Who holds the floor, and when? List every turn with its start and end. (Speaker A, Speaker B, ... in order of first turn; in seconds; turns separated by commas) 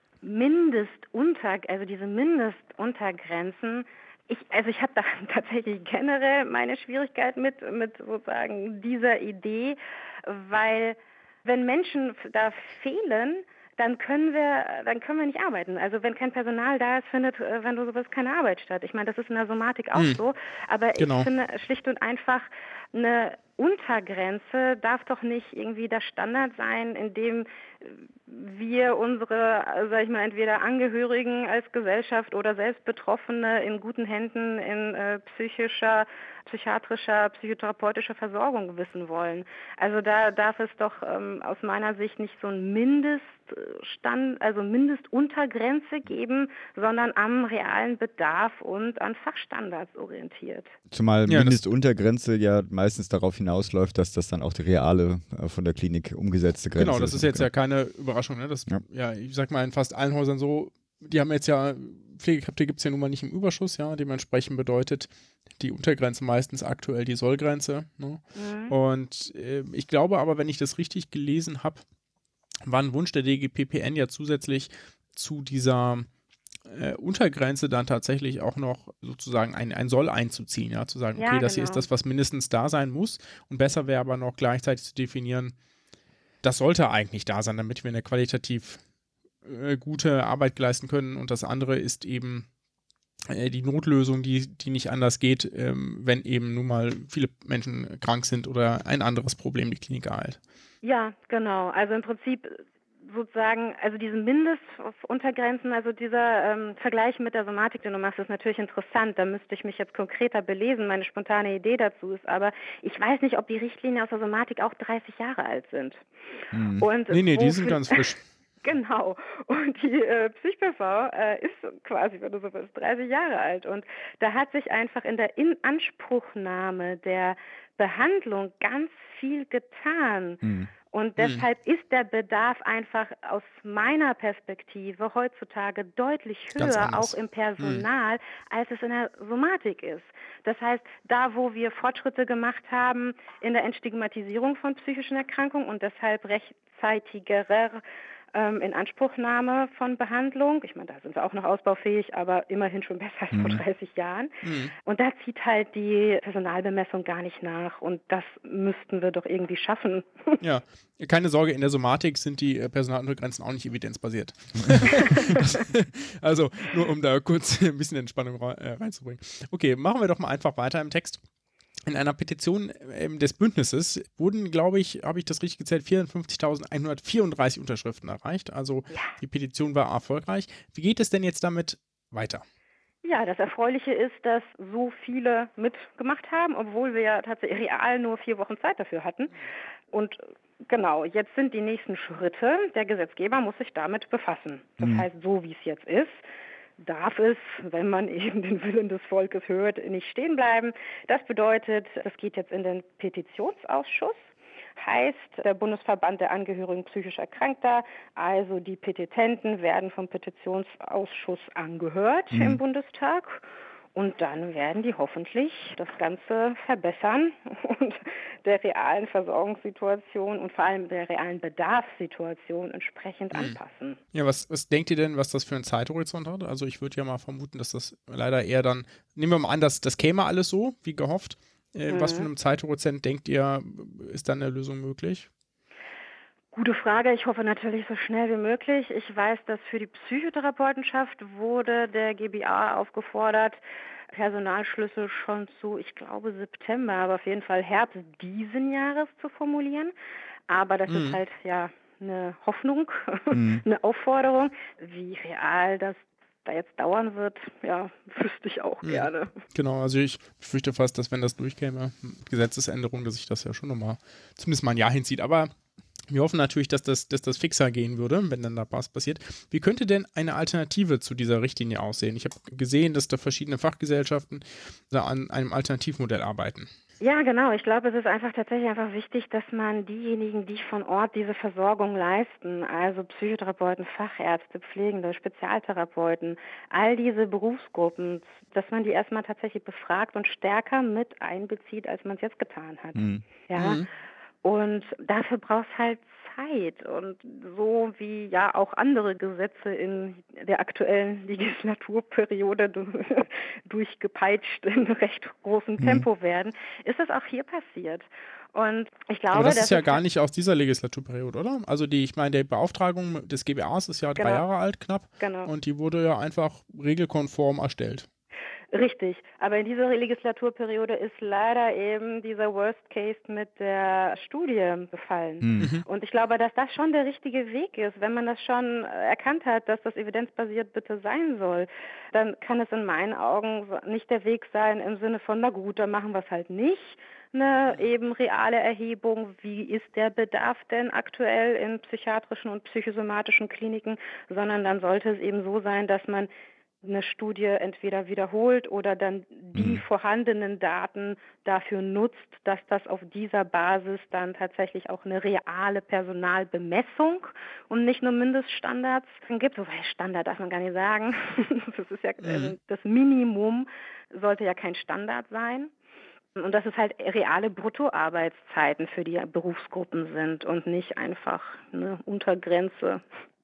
Speaker A: 0.2-50.7, Speaker B: 19.9-20.2, Speaker B: 21.0-21.3, Speaker C: 50.9-57.5, Speaker B: 51.3-51.5, Speaker B: 56.8-71.8, Speaker A: 68.3-68.8, Speaker B: 72.7-76.1, Speaker B: 76.7-85.5, Speaker A: 81.2-81.9, Speaker B: 86.4-88.8, Speaker B: 89.4-92.5, Speaker B: 93.3-100.4, Speaker A: 100.8-116.0, Speaker C: 116.5-116.9, Speaker A: 116.8-118.0, Speaker B: 117.1-118.2, Speaker A: 118.6-147.8, Speaker C: 130.4-130.7, Speaker B: 131.2-131.4, Speaker B: 136.6-137.8, Speaker A: 148.3-160.4, Speaker C: 153.3-153.6, Speaker B: 154.4-154.7, Speaker B: 160.4-171.2, Speaker B: 171.9-182.4, Speaker A: 183.0-189.3, Speaker A: 189.9-196.2, Speaker A: 196.8-204.2, Speaker A: 204.8-213.4, Speaker C: 212.3-212.6, Speaker A: 213.9-224.0, Speaker B: 223.3-223.6, Speaker B: 224.1-235.3, Speaker A: 231.9-232.3, Speaker A: 236.5-243.6, Speaker A: 244.1-249.9, Speaker A: 250.5-259.3, Speaker B: 250.9-251.2, Speaker C: 253.3-253.6, Speaker B: 258.8-265.5, Speaker B: 266.1-276.7, Speaker A: 277.0-293.8, Speaker C: 292.9-293.2, Speaker B: 293.6-293.9, Speaker A: 294.4-310.0, Speaker C: 305.8-306.1, Speaker B: 309.3-318.1, Speaker A: 314.2-314.4, Speaker A: 315.2-315.5, Speaker A: 318.7-346.3, Speaker C: 325.4-325.7, Speaker B: 325.6-325.8, Speaker A: 346.8-365.7, Speaker C: 349.5-349.8, Speaker B: 362.2-362.5, Speaker A: 366.4-373.0